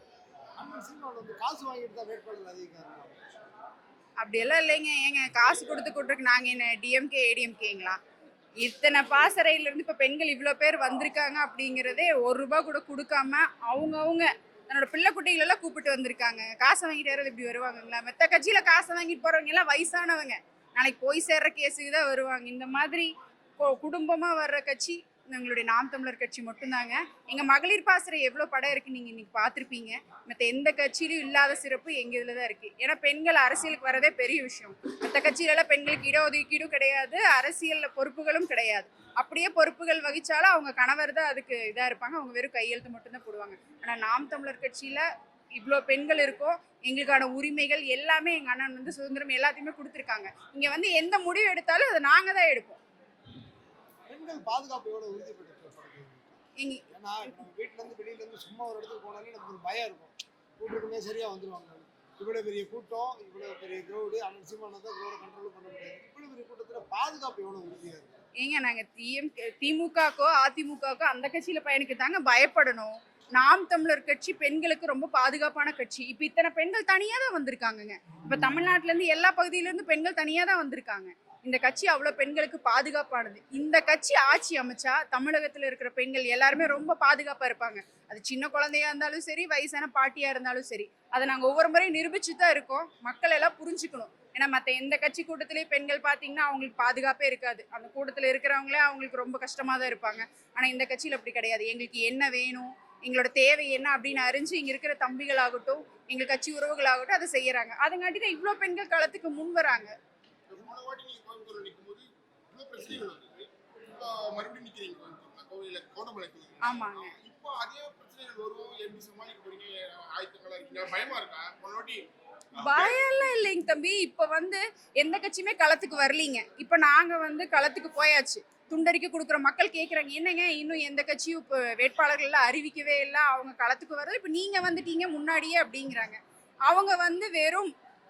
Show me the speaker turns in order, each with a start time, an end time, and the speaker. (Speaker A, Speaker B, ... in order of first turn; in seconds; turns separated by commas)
Speaker A: 0.6-3.2, Speaker B: 4.2-8.0, Speaker B: 8.6-45.0, Speaker B: 45.6-52.8, Speaker A: 54.1-56.4, Speaker B: 56.6-57.4, Speaker A: 56.9-68.2, Speaker B: 68.4-109.9, Speaker C: 110.5-122.0, Speaker B: 116.6-117.2, Speaker C: 122.5-123.0, Speaker B: 122.6-137.7